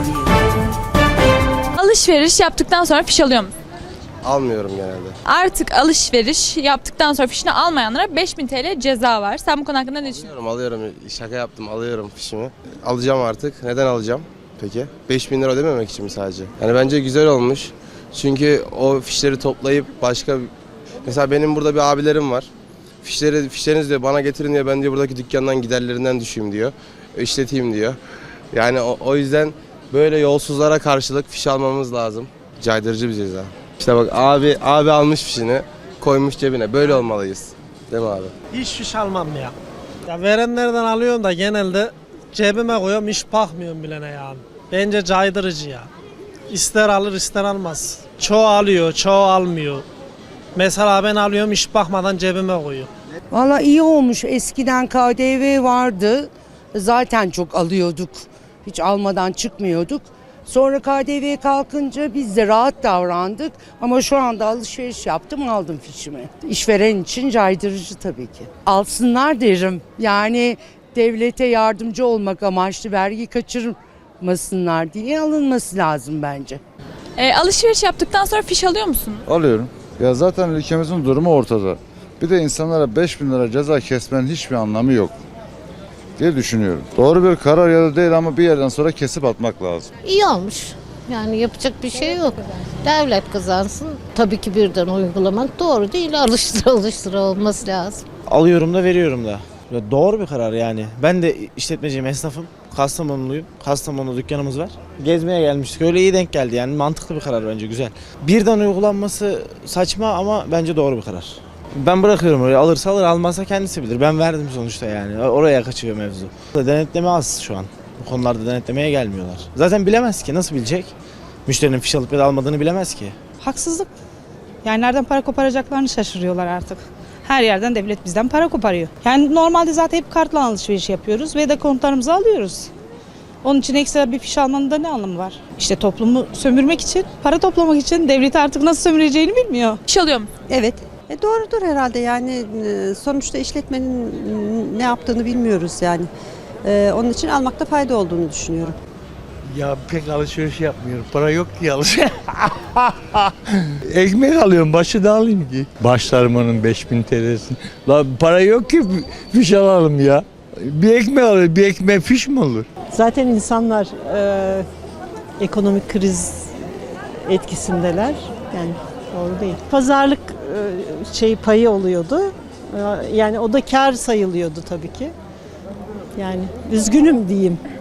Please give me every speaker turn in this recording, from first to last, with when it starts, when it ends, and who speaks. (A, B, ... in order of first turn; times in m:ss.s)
0:01.8-0:03.5 A
0:04.2-0:05.2 B
0:05.3-0:10.2 A
0:10.2-0:20.5 B
0:21.0-0:22.5 B
0:23.0-0:28.0 B
0:28.5-0:38.3 B
0:38.5-0:39.5 C
0:40.1-0:45.9 C
0:46.5-0:49.8 C
0:50.6-0:52.9 C
0:53.3-1:16.6 D
1:17.2-1:19.2 A
1:19.3-1:25.1 E
1:26.2-1:29.9 E
1:30.0-1:38.0 F
1:38.3-2:00.9 G
2:01.5-2:03.2 G
2:03.4-2:03.9 H
2:04.6-2:12.7 H
2:13.4-2:19.8 H
2:19.9-2:20.3 A
2:20.5-2:26.1 I
2:26.6-2:28.8 I
2:29.5-2:42.7 J
2:42.9-2:44.7 K
2:45.4-2:46.5 K
2:47.2-2:55.1 K
2:56.2-2:57.6 K